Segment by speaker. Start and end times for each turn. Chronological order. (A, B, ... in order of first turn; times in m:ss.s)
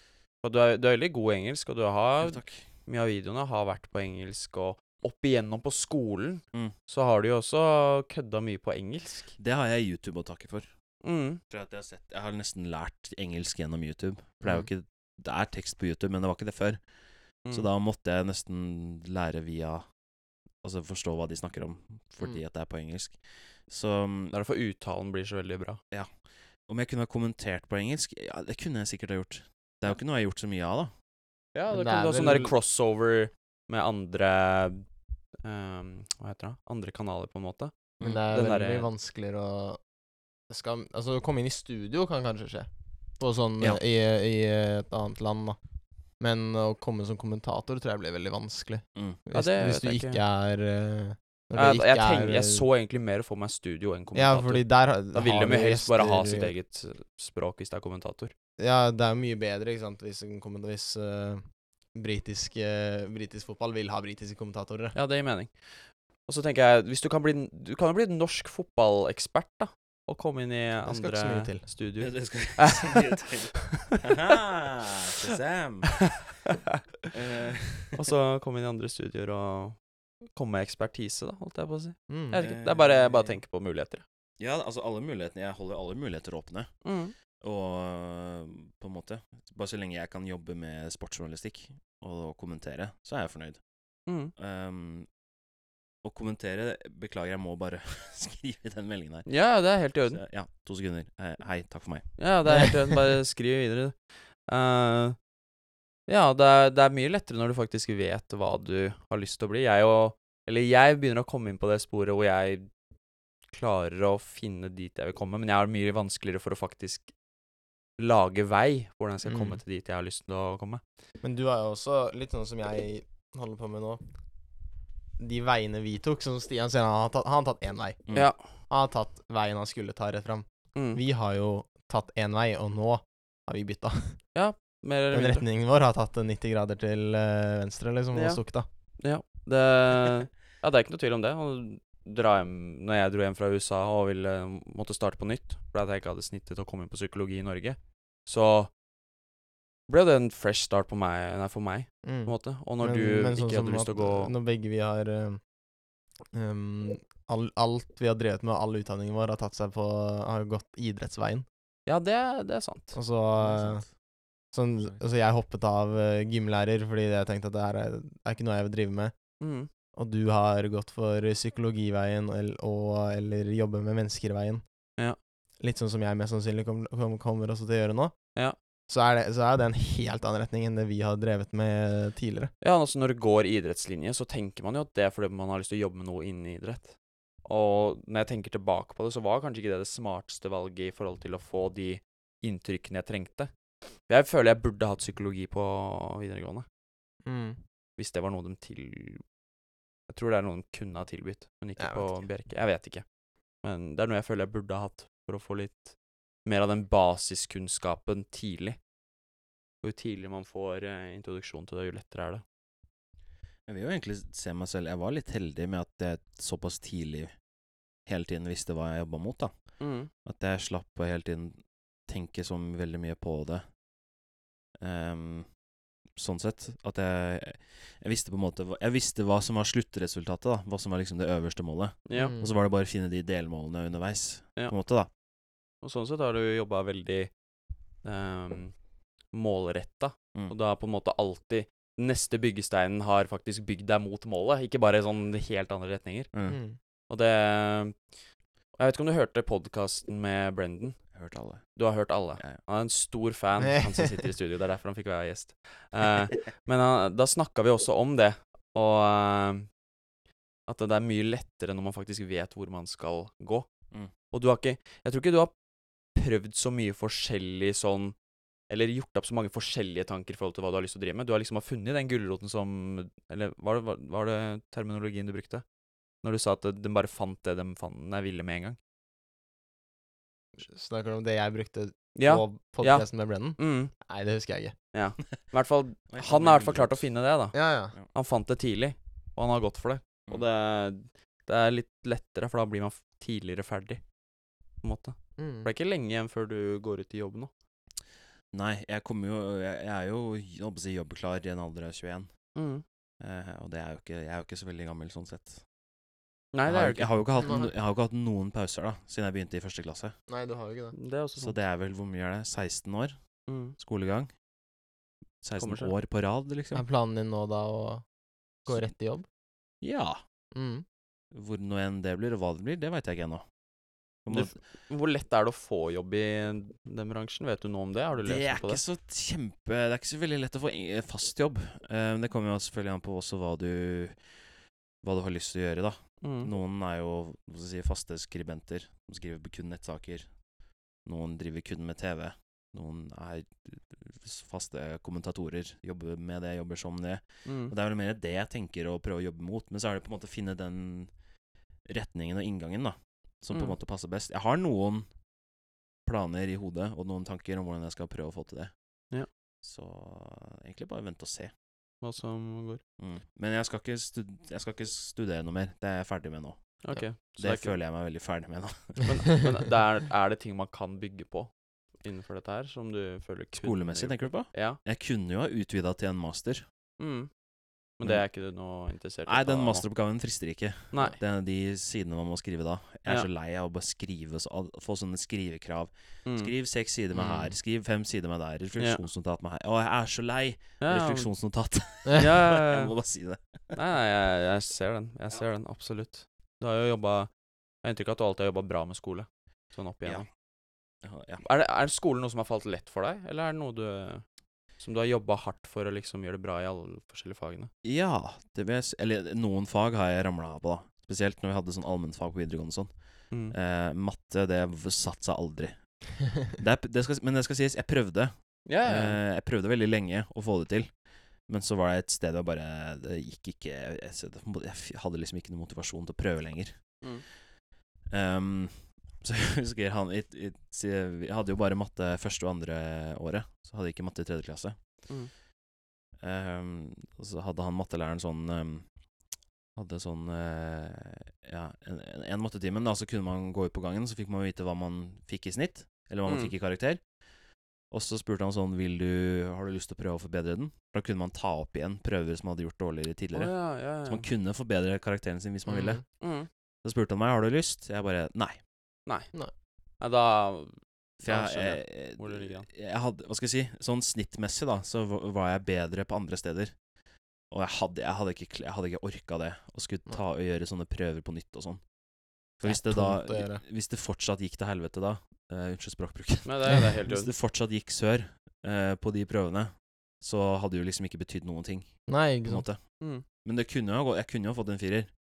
0:00.4-0:09.3 A
0:02.2-0:02.6 B
0:09.4-0:10.7 B
0:11.0-0:11.4 A
0:11.5-0:16.8 B
0:17.5-0:19.8 B
0:20.6-0:24.3 B
0:24.3-0:25.8 A
0:26.7-0:30.9 B
0:31.5-0:34.8 A
0:31.7-0:32.5 C
0:35.4-0:38.9 A
0:38.0-0:39.8 C
0:40.5-0:45.6 C
0:46.2-0:52.6 C
0:49.3-0:50.2 A
0:51.5-0:58.3 A
0:54.1-0:56.5 C
0:58.6-1:01.4 C
1:01.9-1:04.9 C
1:04.9-1:14.3 A
1:10.9-1:11.6 C
1:12.0-1:16.2 B
1:16.5-1:16.7 A
1:17.1-1:18.0 B
1:17.9-1:19.8 A
1:20.3-1:24.0 A
1:22.1-1:22.4 C
1:22.4-1:22.9 B
1:24.4-1:26.7 B
1:26.8-1:27.1 A
1:27.4-1:33.6 B
1:34.1-1:34.3 A
1:34.4-1:35.1 B
1:36.0-1:39.3 B
1:39.2-1:40.2 A
1:40.0-1:42.1 B
1:42.2-1:45.2 A
1:46.1-1:52.7 A
1:53.5-1:57.1 A
1:58.0-2:00.8 A
1:59.2-1:59.6 C
2:01.2-2:04.0 C
2:05.2-2:14.2 C
2:08.1-2:08.5 A
2:10.7-2:11.0 A
2:14.3-2:15.4 A
2:15.1-2:18.7 C
2:18.1-2:18.4 A
2:19.0-2:28.7 A
2:29.9-2:34.3 A
2:32.0-2:35.4 C
2:36.3-2:41.4 C
2:41.8-2:43.0 A
2:42.9-2:43.9 C
2:43.4-2:43.9 B
2:44.5-2:49.1 C
2:49.4-2:49.7 A
2:49.9-2:54.6 C
2:55.6-2:58.1 C
2:58.9-3:02.5 C
3:02.6-3:13.5 A
3:14.0-3:16.6 A
3:17.2-3:17.6 C
3:18.0-3:19.2 A
3:20.1-3:23.0 A
3:21.8-3:22.2 C
3:23.6-3:28.8 A
3:29.8-3:32.4 A
3:33.7-3:37.3 B
3:38.0-3:39.5 B
3:39.8-3:40.1 A
3:40.2-3:43.6 B
3:44.8-3:45.5 B
3:46.2-3:55.1 B
3:52.0-3:52.3 A
3:52.1-3:52.5 C
3:55.8-3:57.3 A
3:58.0-3:58.7 A
3:59.3-4:06.3 A
4:06.3-4:06.6 B
4:06.5-4:06.8 C
4:07.1-4:08.0 A
4:08.8-4:11.0 A
4:11.1-4:11.8 B
4:11.7-4:19.7 A
4:13.6-4:14.2 C
4:20.7-4:23.7 A
4:24.3-4:25.5 A
4:26.1-4:28.2 A
4:28.7-4:35.6 A
4:36.2-4:38.8 A
4:40.6-4:44.7 C
4:42.1-4:43.9 A
4:44.9-4:54.0 A
4:46.1-4:47.0 B
4:47.5-4:47.9 C
4:54.8-4:57.5 A
4:55.4-4:55.7 C
4:58.5-5:02.3 B
5:02.5-5:02.8 A
5:03.2-5:05.6 B
5:06.5-5:07.2 A
5:06.7-5:10.1 B
5:07.4-5:07.7 C
5:10.3-5:10.9 C
5:10.9-5:11.6 A
5:11.4-5:13.2 B
5:13.5-5:13.8 A
5:13.8-5:14.3 B
5:15.4-5:16.8 B
5:15.6-5:15.9 A
5:16.7-5:18.0 C
5:18.6-5:19.2 C
5:19.8-5:20.2 B
5:20.5-5:20.8 C
5:21.3-5:23.4 B
5:24.2-5:24.6 B
5:24.3-5:28.8 A
5:28.2-5:34.2 B
5:35.0-5:40.3 B
5:36.2-5:36.5 A
5:41.0-5:51.1 B
5:47.4-5:47.7 A
5:51.8-5:55.1 B
5:56.0-5:58.7 B
5:59.6-6:01.5 B
6:02.0-6:02.8 A
6:03.0-6:09.5 B
6:06.8-6:07.8 A
6:09.0-6:11.5 A
6:12.0-6:14.8 A
6:13.6-6:16.6 B
6:17.0-6:17.3 A
6:18.0-6:19.8 A
6:19.2-6:33.8 B
6:20.9-6:21.2 A
6:26.2-6:26.5 A
6:27.1-6:27.5 A
6:30.8-6:31.3 A
6:32.1-6:32.9 A
6:33.7-6:37.3 A
6:37.8-6:40.2 A
6:41.0-6:41.4 B
6:41.4-6:44.2 A
6:44.8-6:47.7 A
6:47.8-6:52.9 B
6:53.5-6:55.8 B
6:56.4-6:58.3 B
6:58.6-6:59.2 A
6:58.8-7:00.9 B
7:01.5-7:06.8 B
7:08.1-7:14.8 B
7:16.2-7:18.9 B
7:19.7-7:27.0 B
7:26.2-7:26.5 A
7:27.9-7:36.0 B
7:33.3-7:34.2 A
7:35.7-7:36.0 C
7:36.2-7:36.5 A
7:36.8-7:38.6 B
7:39.0-7:39.3 A
7:40.0-7:42.6 A
7:41.2-7:46.7 B
7:47.5-7:51.8 B
7:52.6-8:01.9 B
7:52.6-7:53.6 C
7:56.4-7:57.3 A
8:02.1-8:02.6 C
8:02.4-8:02.8 B
8:03.4-8:05.1 B